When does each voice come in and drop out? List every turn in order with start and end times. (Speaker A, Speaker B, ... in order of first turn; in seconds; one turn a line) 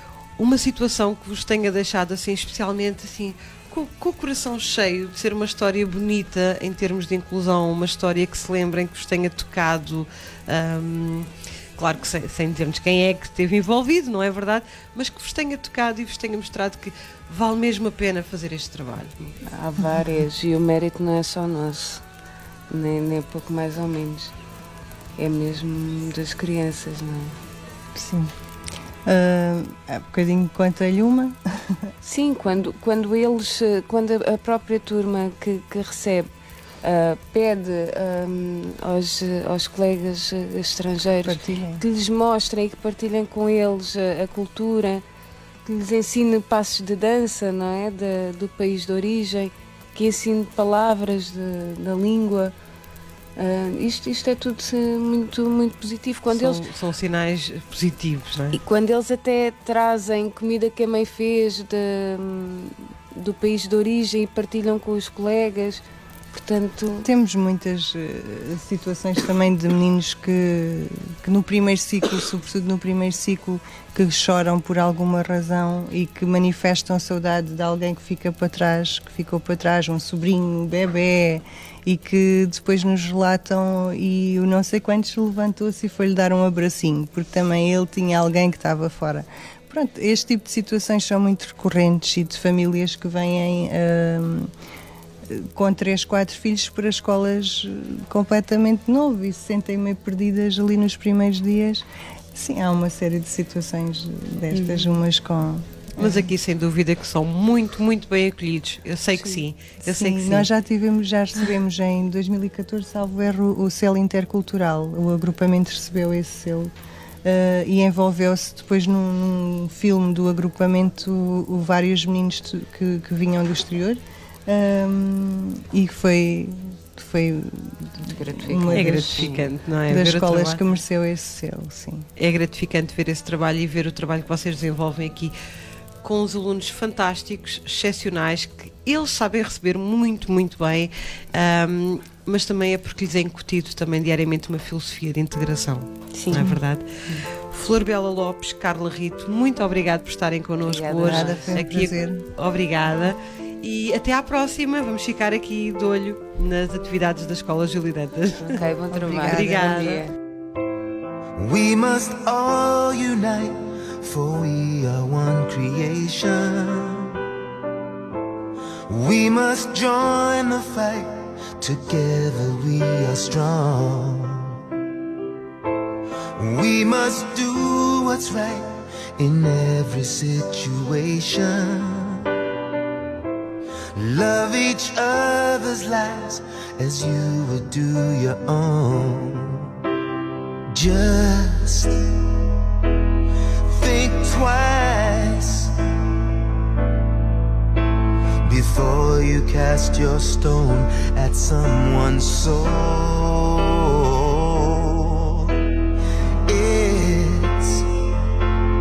Speaker A: 0.4-19.3
Speaker B: 19.4-22.0
Speaker B: 22.7-24.3
Speaker B: 25.2-27.4
Speaker C: 27.9-28.3
Speaker C: 29.0-31.8
Speaker B: 32.0-36.3
Speaker B: 36.8-45.0
Speaker C: 41.2-41.8
Speaker B: 45.6-52.5
Speaker B: 53.4-56.6
Speaker A: 56.3-58.6
Speaker B: 58.5-67.0
Speaker C: 67.0-94.5
Speaker C: 95.3-106.3
Speaker A: 106.0-110.5
Speaker C: 109.8-116.7
Speaker C: 117.2-129.3
Speaker B: 128.0-129.4
Speaker A: 128.7-130.6
Speaker C: 129.9-132.1
Speaker A: 132.2-135.3
Speaker A: 136.0-160.0
Speaker B: 146.1-146.5
Speaker B: 150.7-151.6
Speaker C: 151.0-152.2
Speaker B: 158.4-160.1
Speaker D: 161.4-167.1
Speaker D: 168.9-174.6
Speaker D: 176.4-182.2
Speaker D: 183.9-189.7
Speaker D: 190.7-192.0
Speaker D: 193.7-195.7
Speaker D: 198.4-205.6
Speaker D: 206.5-207.9